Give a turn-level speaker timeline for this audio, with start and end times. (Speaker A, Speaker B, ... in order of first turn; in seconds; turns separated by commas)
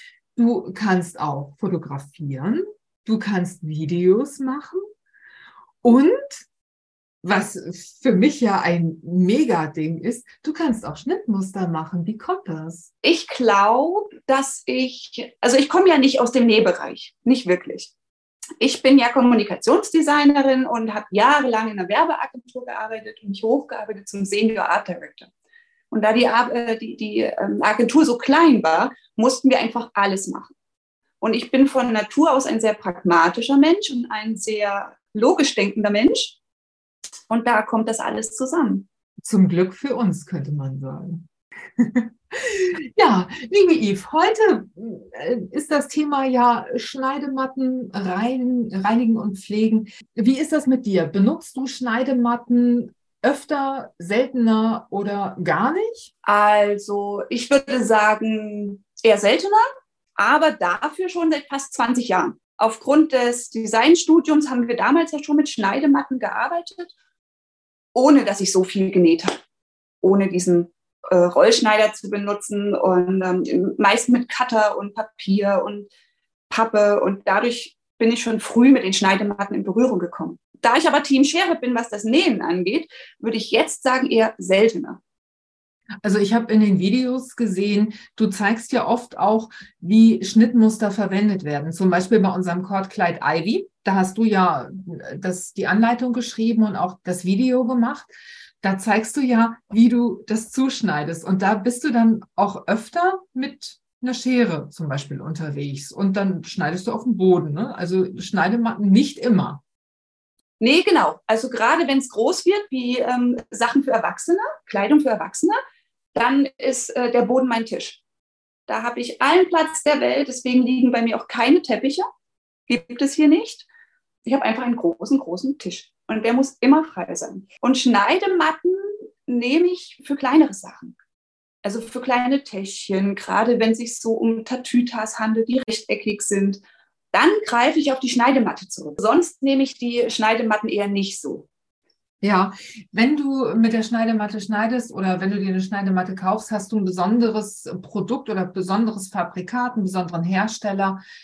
Speaker A: 0.3-4.8, Speaker A: 5.8-6.4, Speaker A: 7.2-12.9, Speaker B: 13.0-17.9, Speaker B: 18.6-25.3, Speaker B: 25.9-30.5, Speaker B: 31.2-36.4, Speaker B: 37.3-38.9, Speaker A: 39.2-56.1, Speaker B: 56.2-59.6, Speaker B: 60.2-66.9, Speaker B: 67.9-69.4, Speaker B: 70.0-75.9, Speaker B: 76.5-85.0, Speaker A: 86.0-109.6, Speaker B: 110.6-115.6, Speaker B: 116.1-118.0, Speaker B: 118.7-122.0, Speaker B: 122.7-123.7, Speaker B: 124.2-130.9, Speaker B: 131.6-141.5, Speaker A: 142.2-151.0